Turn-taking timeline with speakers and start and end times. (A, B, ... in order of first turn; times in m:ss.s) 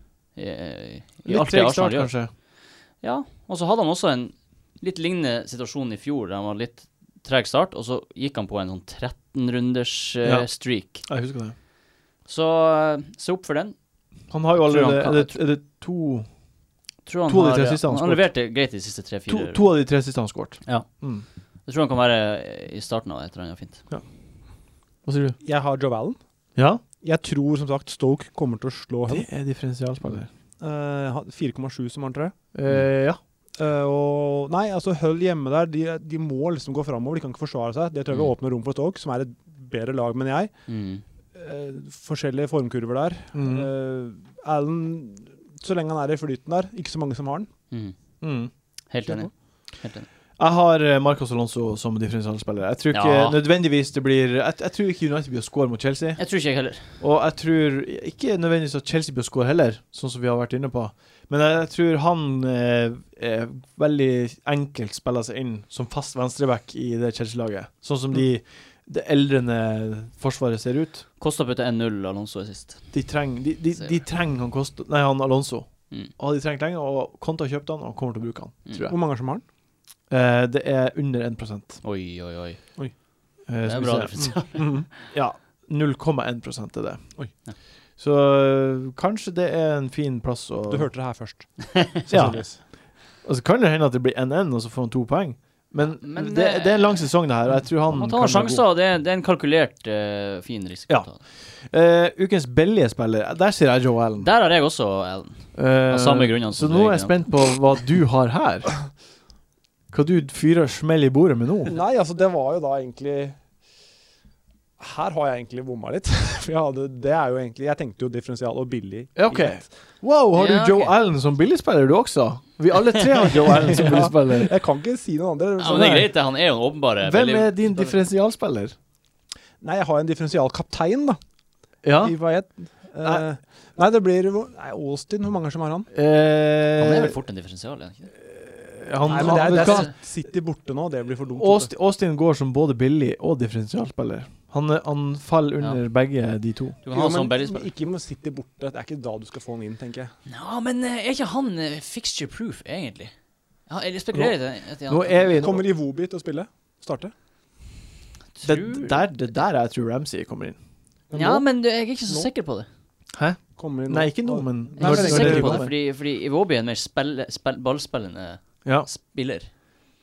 0:00.4-0:02.2 A
0:01.2-0:02.3 B
0:03.0-0:11.1 A
0:10.2-0:11.6 B
0:12.2-0:13.8 A
0:14.3-0:16.3 B
0:14.5-0:15.4 A
0:17.0-0:19.6 A
0:17.3-0:18.3 B
0:19.3-0:21.2 B
0:21.7-0:23.8 A
0:25.0-0:25.4 B
0:25.4-0:26.2 C
0:26.6-0:26.8 B
0:27.0-0:29.3 C
0:29.1-0:30.3 B
0:30.6-0:32.3 C
0:32.5-0:33.2 B
0:33.6-0:40.5 C
0:40.7-0:41.0 A
0:41.3-0:47.5 C
0:43.3-0:43.7 B
0:47.7-0:48.0 A
0:48.2-0:48.5 B
0:48.9-0:50.1 A
0:50.4-0:56.2 B
0:52.9-0:53.4 A
0:56.2-0:57.0 A
0:57.0-1:11.0 B
1:11.2-1:12.9 A
1:12.9-1:19.0 B
1:18.9-1:19.4 C
1:20.1-1:21.8 B
1:21.8-1:22.6 A
1:23.5-1:27.1 B
1:23.6-1:24.9 A
1:24.6-1:24.9 C
1:28.0-1:30.9 B
1:30.7-1:32.6 C
1:32.1-1:38.6 B
1:36.0-1:41.2 A
1:40.9-1:44.3 B
1:44.2-1:47.2 A
1:45.6-1:48.8 B
1:49.9-1:51.7 B
1:51.7-1:53.4 C
1:54.8-1:59.7 C
1:59.2-2:04.5 B
2:00.3-2:00.9 A
2:03.6-2:06.1 C
2:05.6-2:07.9 A
2:05.7-2:06.1 B
2:07.0-2:08.8 B
2:09.6-2:11.2 C
2:11.8-2:12.2 B
2:12.0-2:15.9 C
2:15.9-2:17.2 B
2:16.8-2:18.1 A
2:18.3-2:19.9 B
2:19.1-2:21.7 C
2:19.1-2:19.9 A
2:21.4-2:26.8 B
2:26.8-2:27.7 A
2:26.9-2:30.1 C
2:30.3-2:33.1 A
2:33.7-2:35.4 A
2:34.9-2:35.7 B
2:35.4-2:37.1 C
2:38.3-2:39.0 A
2:38.4-2:40.6 B
2:41.1-2:41.5 C
2:41.1-2:42.7 A
2:43.2-2:45.7 B
2:43.6-2:45.7 C
2:44.8-2:49.5 A